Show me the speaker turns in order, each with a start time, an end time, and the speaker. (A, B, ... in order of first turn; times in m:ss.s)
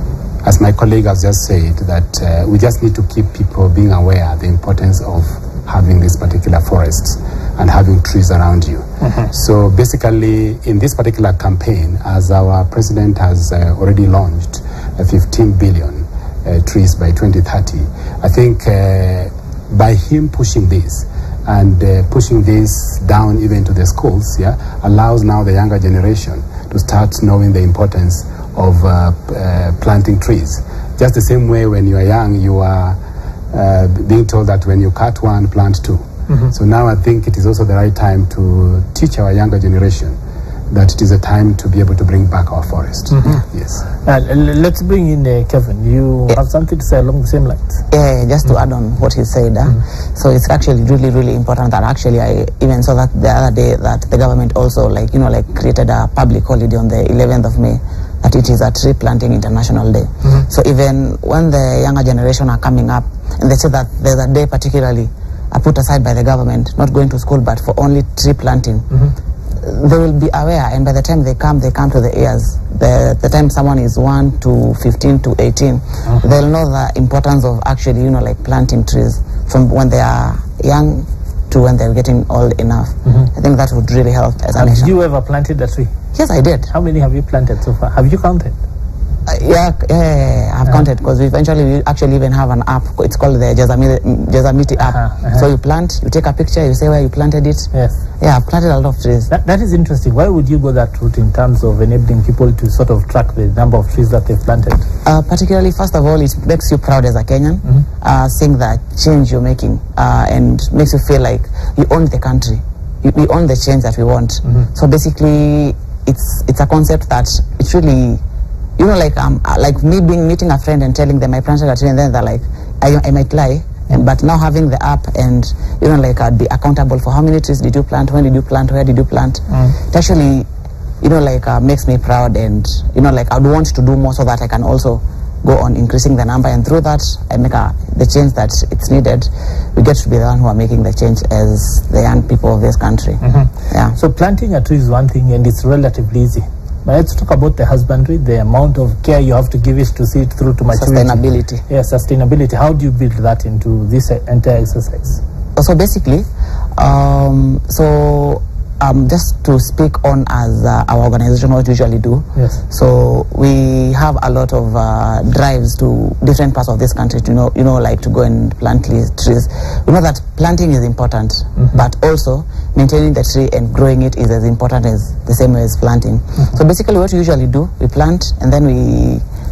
0:00.4-0:33.0 A
0:09.0-0:09.3 B
0:33.5-0:40.2 A
0:40.7-0:43.8 A
0:43.1-0:43.4 B
0:44.0-0:47.8 B
0:47.9-1:08.9 C
1:09.6-1:25.0 C
1:23.1-1:23.3 B
1:24.6-1:25.9 B
1:26.1-1:26.7 C
1:26.7-1:28.6 B
1:29.3-1:37.7 C
1:34.8-1:35.5 B
1:38.2-1:39.3 C
1:39.3-1:44.9 B
1:45.0-1:58.2 C
1:58.8-2:10.5 C
2:11.0-2:24.0 C
2:23.2-2:35.2 B
2:30.7-2:31.6 C
2:35.6-2:36.3 C
2:36.8-2:59.2 C
2:42.4-2:42.6 B